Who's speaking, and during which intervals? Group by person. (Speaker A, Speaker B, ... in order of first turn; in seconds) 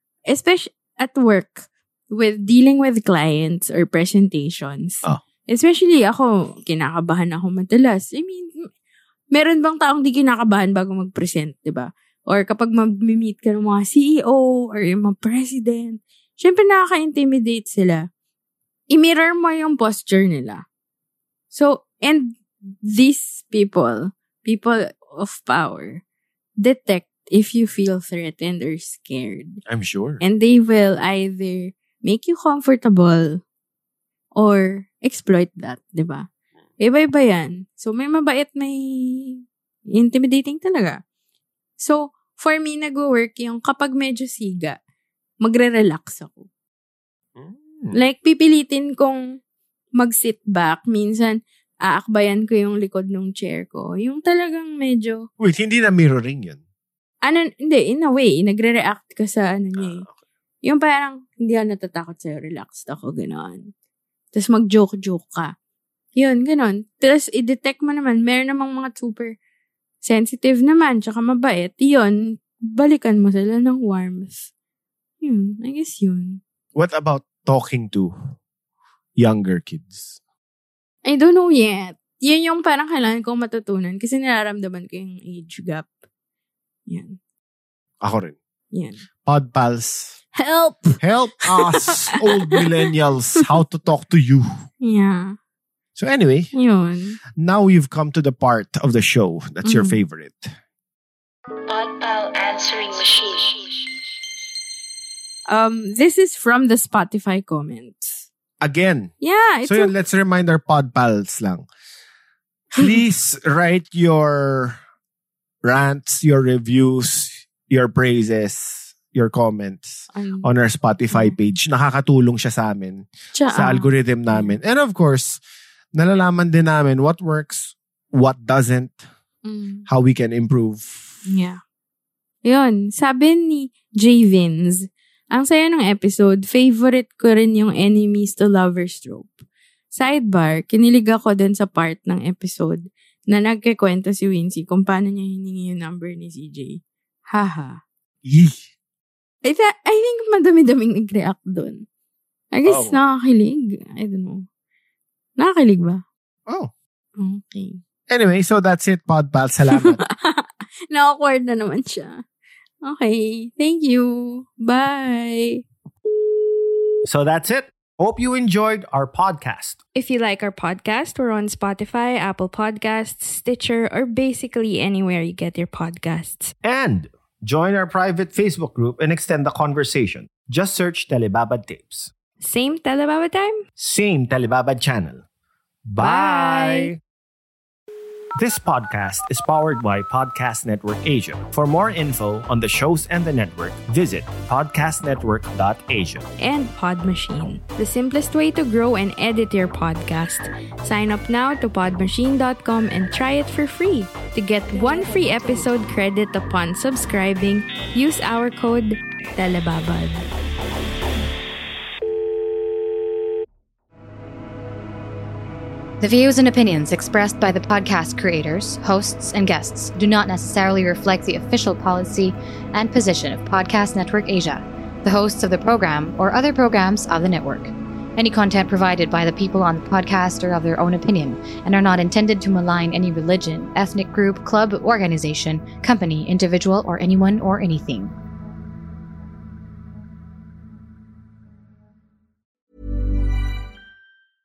Speaker A: 0.3-8.5, 9.3-18.0, 18.9-20.6, 21.5-26.0, 26.6-29.6, 30.2-33.4, 34.4-36.3, 36.8-39.4, 39.9-41.0, 41.8-44.8, 45.4-46.5, 47.9-49.2, 50.0-55.3, 57.2-60.0, 60.6-63.7, 64.3-65.5, 66.2-69.3, 70.0-74.5, 75.2-76.4, 81.1-85.9, 86.9-87.2, 88.7-89.0, 90.3-91.0, 91.6-92.6, 94.8-95.4, 96.5-97.2, 99.7-100.0, 105.5-108.3, 109.2-109.9, 120.1-120.5, 121.1-121.4, 123.3-124.6, 129.4-129.9, 131.3-131.6, 132.4-147.8, 149.4-151.8, 152.5-154.5, 155.4-156.0, 157.2-157.8, 159.7-162.2, 162.8-165.6, 169.9-176.5, 182.4-183.6, 186.0-186.9, 196.4-210.2
Speaker B: 29.7-30.2, 47.4-48.0, 55.4-56.6, 59.8-60.2, 76.8-78.1, 79.2-80.2, 88.0-88.4, 89.2-90.2, 91.0-94.5, 96.0-96.5, 97.4-100.5, 108.6-109.1, 109.6-111.7, 112.8-114.8, 115.6-125.4, 125.9-129.0, 129.9-131.2, 148.2-148.7, 152.7-153.0, 156.5-156.7, 158.1-160.0, 167.1-169.8, 176.6-182.1, 183.8-185.2, 185.9-187.0, 188.3-196.3, 205.2-205.6
Speaker C: 101.7-103.9
Speaker D: 216.0-238.1